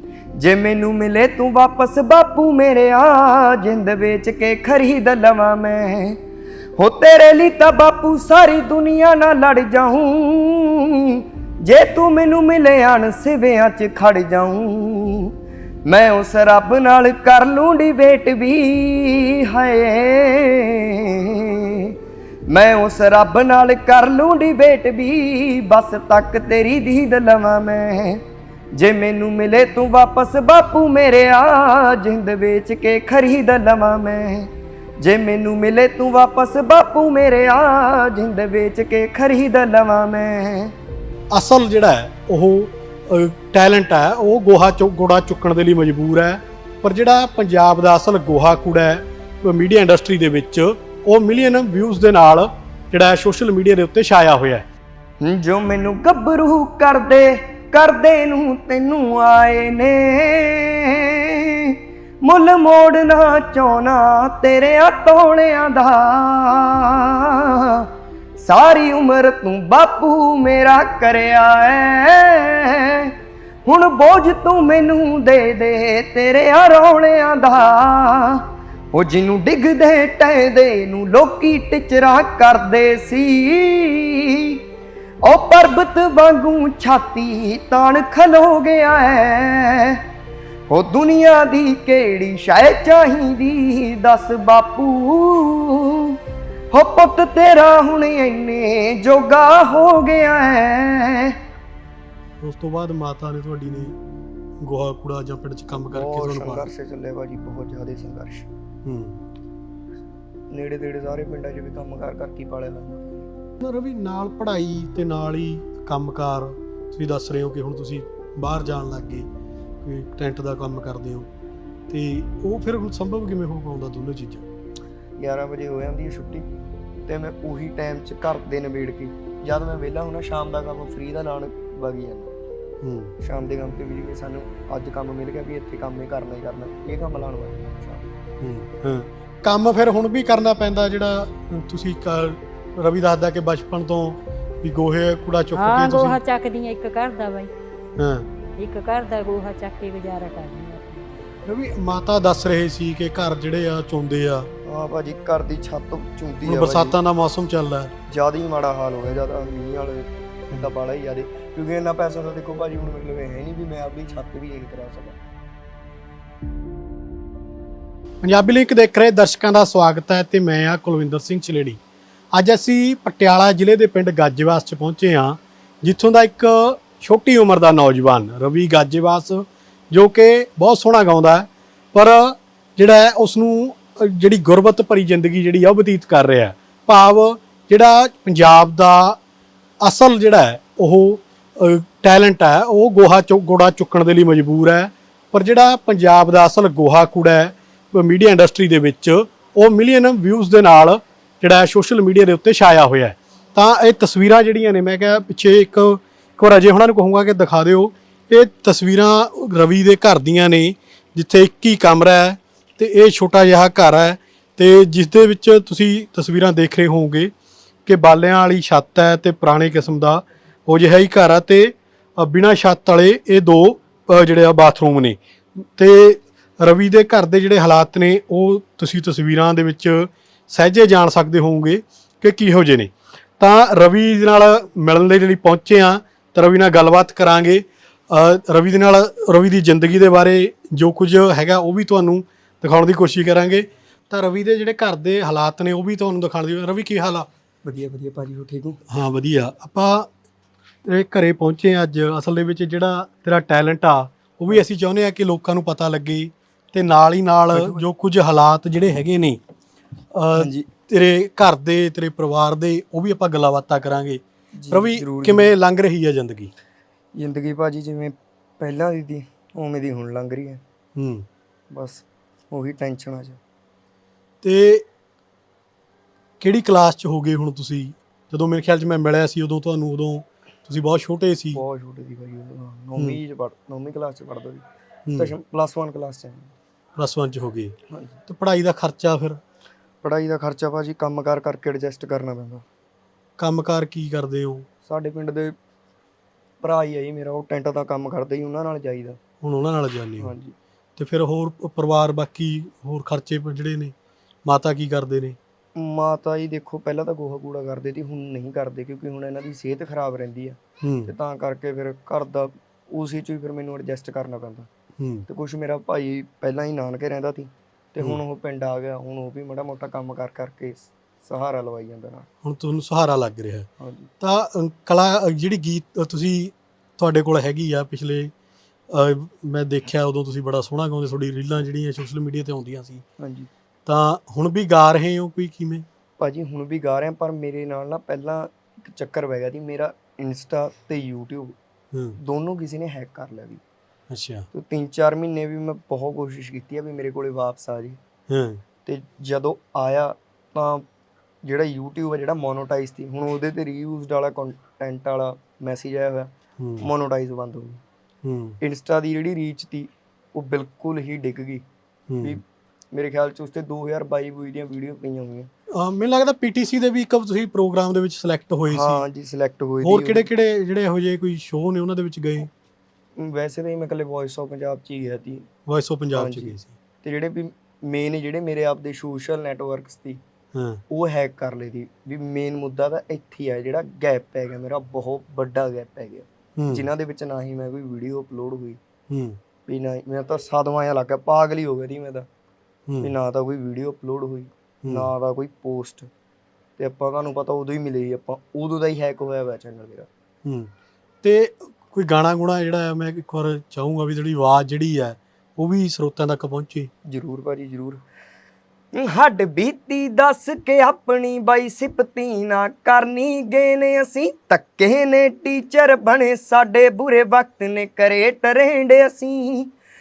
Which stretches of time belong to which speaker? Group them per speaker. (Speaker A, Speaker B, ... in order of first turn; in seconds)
Speaker A: 0.4-6.2, 6.8-15.3, 15.9-21.9, 22.5-28.2, 28.7-40.7, 55.2-61.1, 61.6-67.9, 68.4-73.1, 73.7-84.6, 85.2-90.0, 90.7-96.2, 96.7-101.4, 105.9-108.5, 110.5-113.3, 125.2-126.5, 127.1-132.3, 133.2-138.1, 154.7-157.0, 158.1-165.2, 247.7-248.8, 257.5-257.9, 260.4-260.7, 264.6-265.5, 267.2-270.6, 271.7-273.4, 281.5-284.6, 285.2-286.5, 287.9-288.2, 290.0-292.6, 294.8-295.6, 296.6-299.2, 300.2-300.6, 305.8-314.7, 315.3-322.3, 323.8-324.1, 333.2-333.5, 336.2-341.6, 342.2-343.6, 344.5-348.0, 348.9-350.9, 351.4-357.8, 358.6-361.6, 362.2-365.5, 368.7-370.3, 373.2-375.5, 376.1-380.2, 380.9-388.8, 389.7-392.3, 393.0-396.1, 396.8-400.1, 407.1-408.0, 408.9-419.7
Speaker B: 41.3-54.7, 102.4-104.0, 104.6-106.7, 108.8-109.2, 113.6-119.3, 119.8-121.3, 121.9-124.5, 132.8-133.1, 138.4-146.2, 148.0-148.3, 151.4-154.5, 156.4-157.9, 168.2-171.8, 172.3-189.2, 189.8-217.3, 217.9-247.3, 248.9-250.1, 250.9-259.4, 260.1-266.5, 271.0-271.3, 274.4-274.9, 276.4-281.6, 285.1-285.3, 287.0-287.8, 288.3-289.4, 293.4-294.7, 299.4-300.4, 301.0-303.9, 304.5-305.4, 310.8-311.1, 315.0-315.3, 322.4-323.7, 324.2-328.3, 328.9-333.0, 333.9-335.9, 341.9-342.2, 344.1-344.5, 348.3-348.6, 356.6-356.9, 358.2-358.6, 362.1-362.4, 365.8-369.1, 369.8-372.5, 375.7-376.7, 380.6-380.8, 386.6-386.9, 389.1-389.4, 392.9-393.1, 394.8-395.1, 400.4-400.7, 401.2-406.9
Speaker C: 145.6-147.5, 148.6-151.2